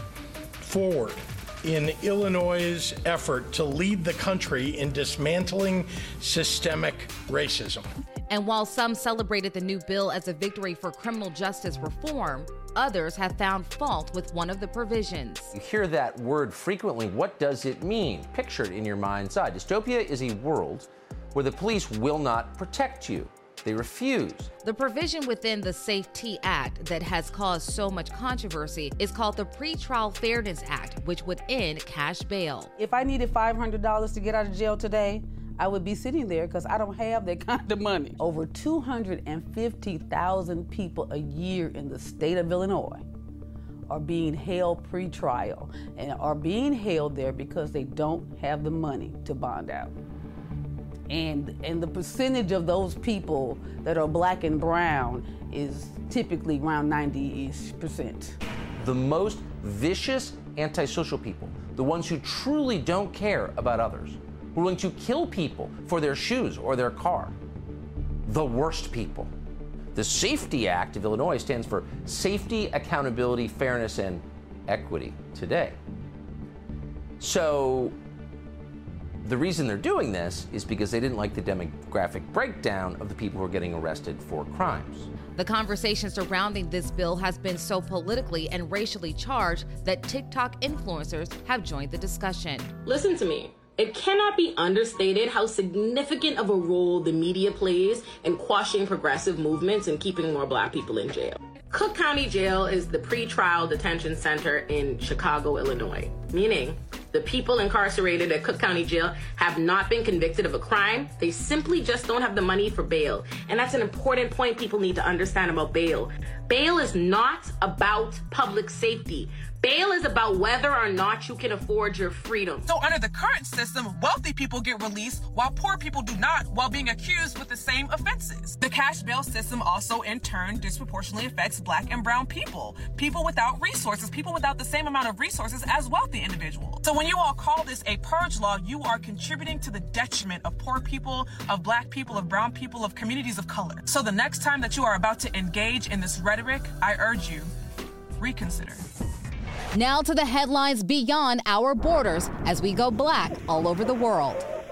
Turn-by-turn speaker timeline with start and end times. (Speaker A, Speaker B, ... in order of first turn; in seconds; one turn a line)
Speaker A: 0.6-7.9
Speaker B: 8.3-15.5
Speaker C: 15.5-24.5
Speaker B: 24.6-32.7
Speaker D: 32.8-43.0
Speaker D: 43.9-49.9
Speaker D: 51.1-58.4
Speaker C: 58.8-67.3
Speaker C: 68.2-69.3
Speaker C: 69.9-75.8
Speaker C: 77.2-77.9
Speaker C: 79.2-85.1
Speaker B: 85.4-92.7
Speaker E: 92.8-122.7
Speaker F: 122.6-147.5
Speaker F: 148.2-148.8
Speaker B: 149.7-154.5